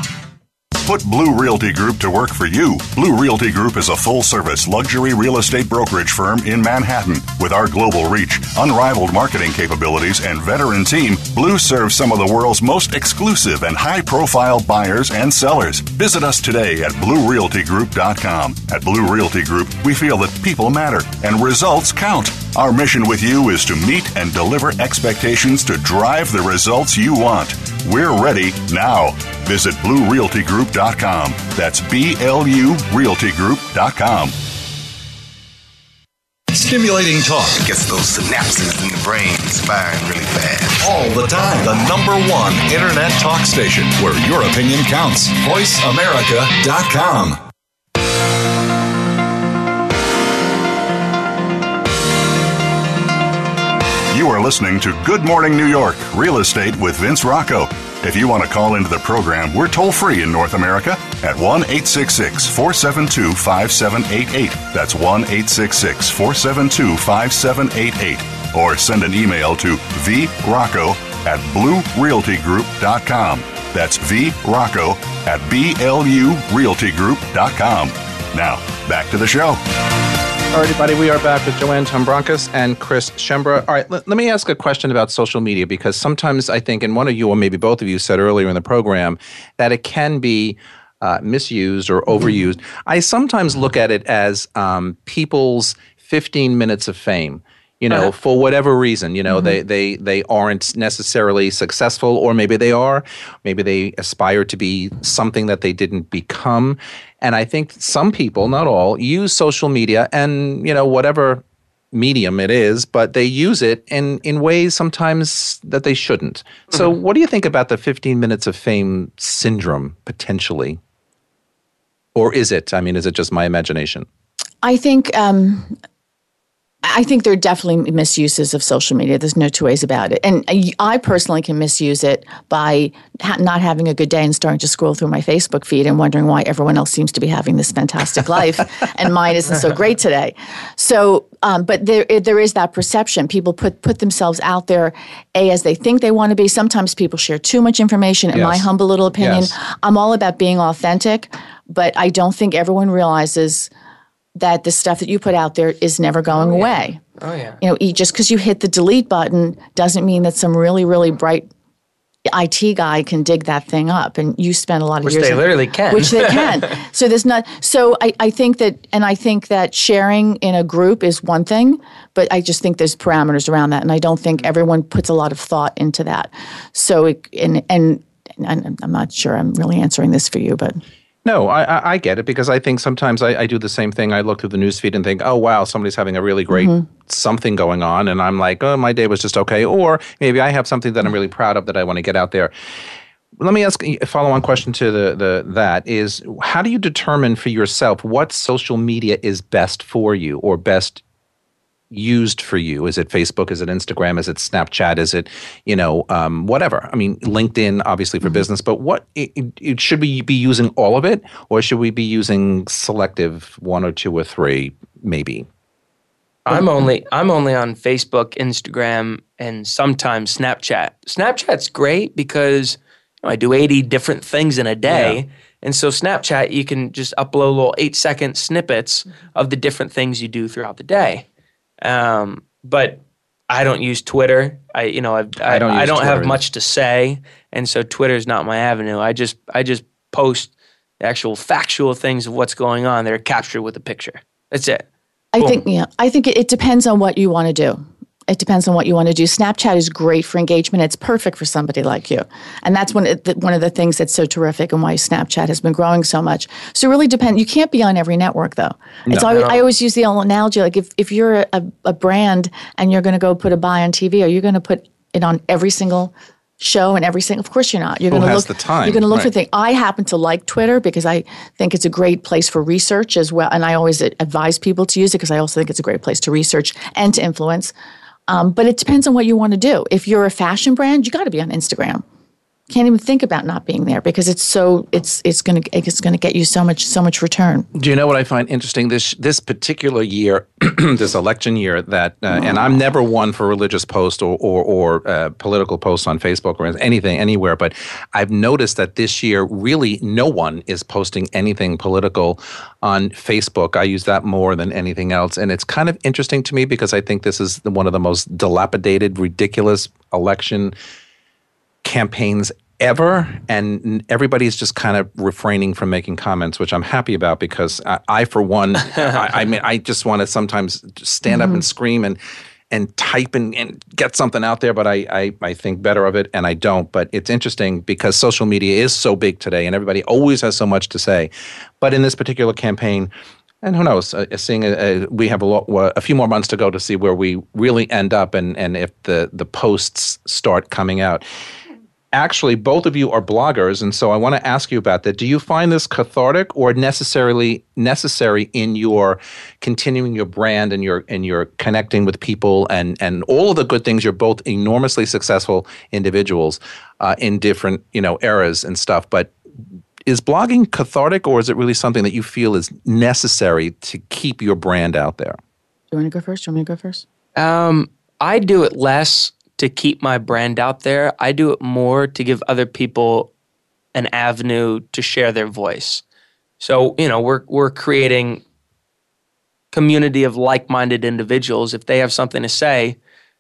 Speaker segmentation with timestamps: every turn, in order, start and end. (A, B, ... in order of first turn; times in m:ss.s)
0:00.8-0:34.4 A
0:36.5-0:37.6 A
0:37.5-0:40.9 B
0:40.8-0:47.4 A
0:54.1-1:19.6 A
1:20.5-2:00.8 C
2:02.2-2:04.1 C
2:04.6-2:05.8 D
2:06.8-2:33.7 D
2:28.3-2:29.5 C
2:34.4-2:37.0 D
2:37.2-2:37.6 E
2:37.6-2:41.5 D
2:42.3-3:00.8 D
2:45.0-2:46.8 E
3:01.2-3:12.5 C
3:06.5-3:06.9 D
3:13.4-3:21.0 C
3:21.9-3:35.5 C
3:36.5-3:51.2 E
3:44.9-3:45.2 C
3:51.8-4:04.9 E
3:55.4-3:56.4 C
4:05.3-4:37.7 D
4:19.3-4:19.6 E
4:28.1-4:29.3 C
4:38.3-4:42.0 D
4:42.7-4:47.7 D
4:47.7-5:10.7 C
5:11.8-5:22.2 C
5:21.3-5:21.6 D
5:22.7-5:33.1 C
5:33.6-5:41.2 C
5:42.1-5:59.3 C
6:00.1-6:05.4 C
6:05.9-6:07.0 D
6:07.4-6:13.3 E
6:14.0-6:16.0 E
6:16.6-6:18.4 E
6:19.7-6:23.0 E